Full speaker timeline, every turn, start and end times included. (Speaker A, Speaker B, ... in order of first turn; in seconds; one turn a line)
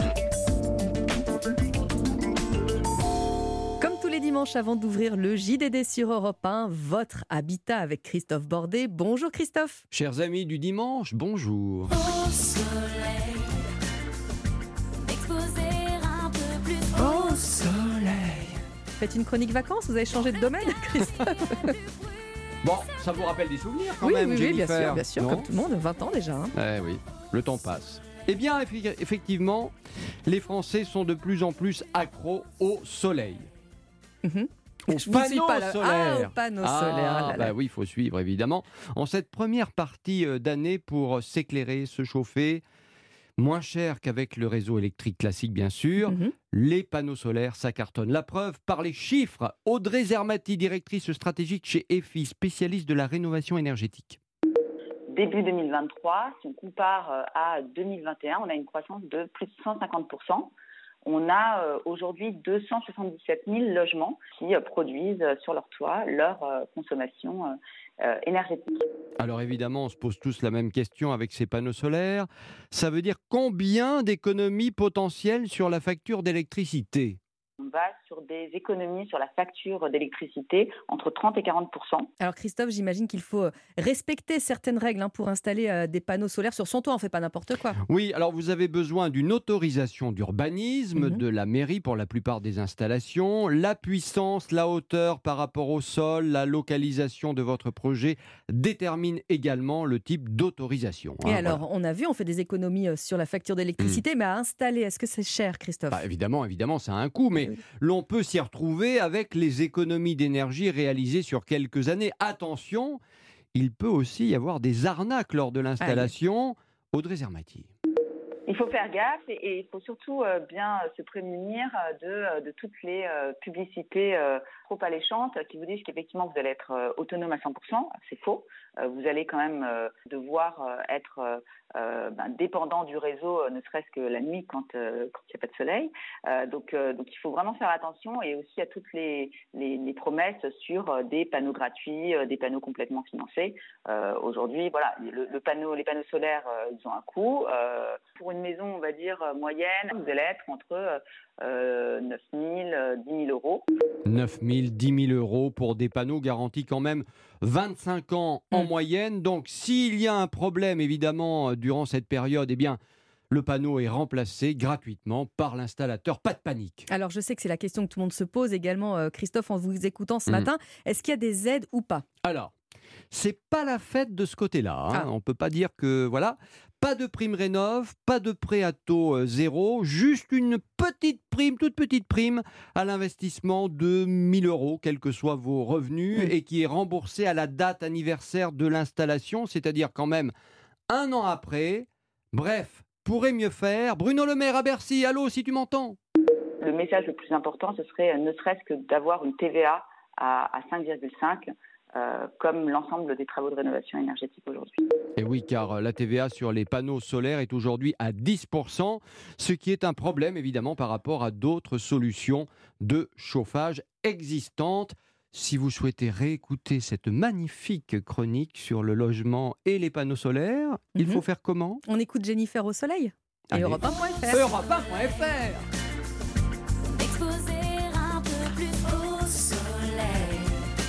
Speaker A: 3.8-9.8
Speaker B: 9.9-12.0
Speaker C: 12.0-13.6
Speaker C: 15.0-17.5
Speaker B: 17.5-18.5
Speaker A: 19.0-21.7
Speaker B: 22.6-25.5
Speaker A: 24.0-26.5
Speaker B: 26.5-29.7
Speaker B: 30.2-33.5
Speaker A: 34.2-37.5
Speaker B: 34.9-42.6
Speaker B: 43.4-54.2
Speaker A: 46.0-46.3
Speaker D: 55.1-60.5
Speaker D: 61.0-68.8
Speaker B: 69.2-77.2
Speaker D: 77.6-82.1
Speaker A: 82.2-87.8
Speaker B: 87.8-101.6
Speaker A: 101.2-106.0
Speaker B: 105.9-113.0
Speaker B: 113.5-117.7
Speaker A: 115.8-116.1
Speaker D: 118.5-153.7
Speaker B: 154.1-162.8
Speaker B: 163.3-166.9
Speaker A: 166.9-172.1
Speaker B: 172.2-172.5
Speaker B: 173.1-190.3
Speaker B: 190.9-196.0
Speaker D: 196.6-204.9
Speaker B: 205.2-221.8
Speaker A: 220.9-221.2
Speaker A: 221.8-224.5
Speaker B: 223.5-225.7
Speaker C: 226.9-230.6